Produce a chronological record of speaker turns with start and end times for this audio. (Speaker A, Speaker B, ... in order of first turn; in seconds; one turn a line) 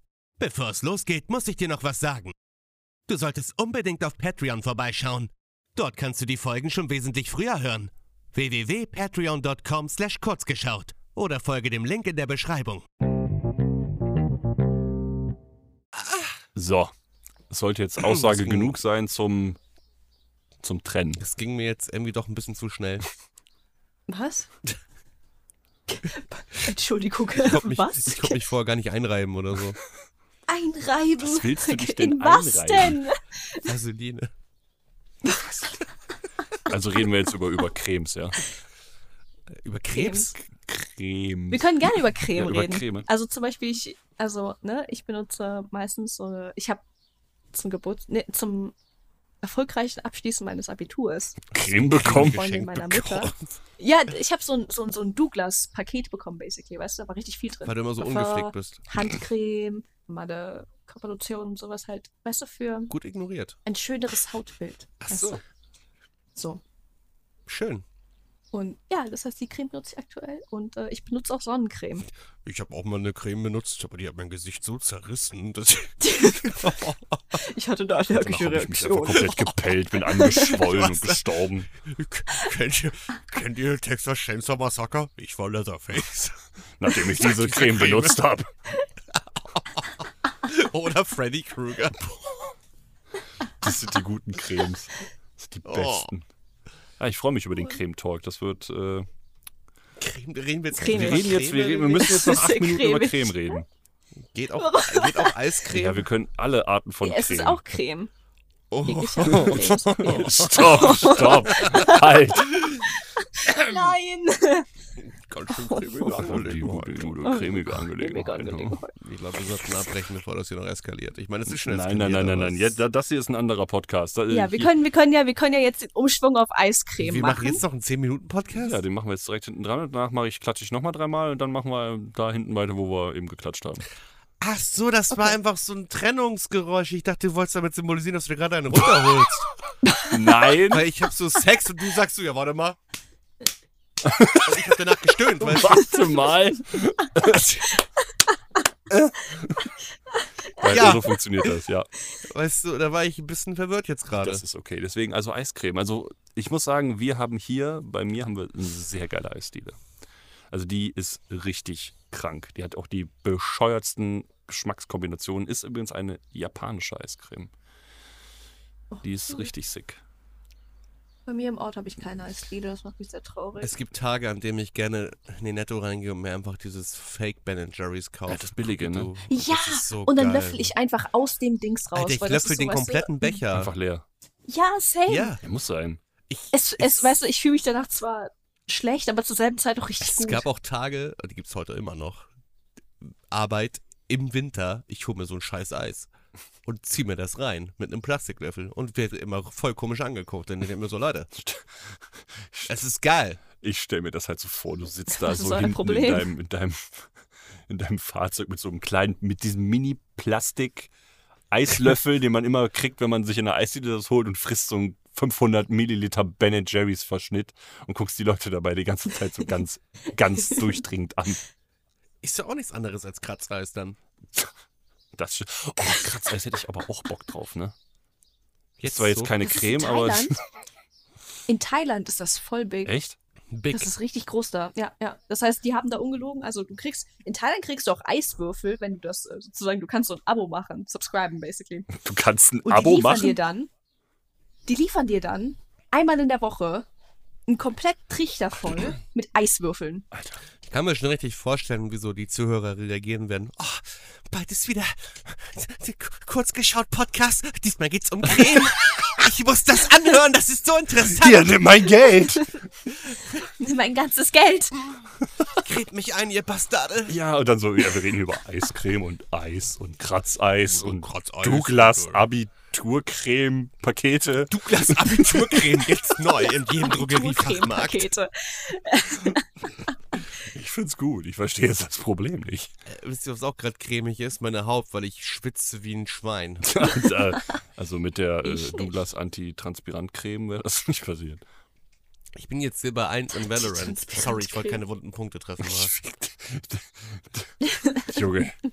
Speaker A: 0.4-2.3
Speaker A: 3.1-12.8
Speaker B: 16.5-16.9
Speaker B: 17.5-19.6
Speaker A: 18.0-18.7
Speaker B: 20.6-21.2
Speaker A: 21.2-23.1
Speaker C: 24.1-24.5
Speaker C: 25.9-28.4
Speaker A: 27.4-29.8
Speaker C: 30.5-33.7
Speaker B: 31.2-33.0
Speaker A: 33.6-34.3
Speaker B: 36.7-38.4
Speaker A: 39.6-40.4
Speaker C: 39.9-40.3
Speaker B: 40.6-43.1
Speaker C: 41.5-46.8
Speaker C: 47.5-48.7
Speaker C: 49.4-51.5
Speaker B: 51.5-52.4
Speaker A: 51.9-53.5
Speaker C: 52.0-62.9
Speaker A: 57.6-58.9
Speaker A: 62.9-63.6
Speaker C: 63.6-65.4
Speaker A: 65.0-65.4
Speaker C: 66.3-66.6
Speaker A: 67.5-67.8
Speaker C: 68.5-72.1
Speaker A: 72.4-77.2
Speaker C: 76.0-76.7
Speaker C: 77.3-79.4
Speaker B: 78.1-81.7
Speaker C: 80.0-80.6
Speaker A: 80.5-88.2
Speaker B: 86.8-88.5
Speaker A: 89.1-92.5
Speaker B: 93.6-96.3
Speaker A: 95.6-96.1
Speaker B: 97.0-99.1
Speaker A: 100.0-102.3
Speaker C: 100.7-103.6
Speaker B: 100.9-103.7
Speaker A: 104.3-106.1
Speaker C: 104.6-105.4
Speaker B: 105.7-107.7
Speaker C: 107.0-108.1
Speaker A: 108.7-111.8
Speaker C: 108.8-114.7
Speaker B: 109.2-112.6
Speaker A: 115.0-117.2
Speaker C: 115.5-116.2
Speaker B: 116.1-118.8
Speaker C: 117.2-118.9
Speaker A: 119.0-122.8
Speaker B: 121.5-124.7
Speaker C: 124.3-127.6
Speaker A: 127.0-128.8
Speaker B: 128.6-133.8
Speaker A: 134.4-139.4
Speaker B: 140.1-140.8
Speaker A: 140.6-142.8
Speaker B: 144.0-144.7
Speaker A: 144.3-146.1
Speaker B: 145.4-147.7
Speaker C: 147.4-147.8
Speaker B: 148.9-149.7
Speaker C: 150.2-151.2
Speaker B: 150.6-151.9
Speaker A: 150.7-151.0
Speaker A: 152.2-154.4
Speaker B: 154.1-159.8
Speaker B: 160.5-167.5
Speaker C: 168.9-169.5
Speaker B: 169.0-170.0
Speaker C: 171.2-173.8
Speaker A: 173.6-180.7
Speaker B: 178.2-179.1
Speaker C: 179.3-183.4
Speaker A: 181.9-183.7
Speaker B: 183.5-184.0
Speaker C: 184.5-185.4
Speaker A: 185.1-185.4
Speaker B: 185.4-186.0
Speaker A: 186.3-187.2
Speaker C: 186.5-190.4
Speaker A: 190.0-192.3
Speaker A: 193.3-196.1
Speaker A: 196.6-201.3
Speaker B: 201.3-202.8
Speaker A: 202.7-203.4
Speaker B: 203.6-207.1
Speaker C: 205.1-206.3
Speaker B: 207.7-210.9
Speaker B: 211.5-221.4
Speaker A: 222.2-224.0
Speaker B: 225.2-227.7
Speaker A: 228.8-229.3
Speaker B: 228.8-230.4
Speaker C: 229.4-230.3
Speaker C: 231.5-232.9
Speaker B: 232.8-233.2
Speaker A: 233.5-233.9
Speaker C: 233.7-241.9
Speaker B: 241.9-243.4
Speaker C: 242.6-243.7
Speaker C: 244.7-246.9
Speaker C: 247.5-250.1
Speaker B: 250.1-250.4
Speaker A: 250.7-261.9
Speaker B: 258.4-259.0
Speaker B: 261.0-262.6
Speaker C: 263.3-264.9
Speaker A: 265.4-267.2
Speaker B: 267.1-275.9
Speaker A: 270.6-272.3
Speaker A: 274.5-278.1
Speaker C: 276.4-280.2
Speaker B: 280.4-282.7
Speaker A: 282.9-287.0
Speaker B: 286.6-291.4
Speaker C: 288.4-288.9
Speaker A: 292.4-295.9
Speaker C: 293.4-294.8
Speaker B: 295.6-298.6
Speaker C: 297.6-298.2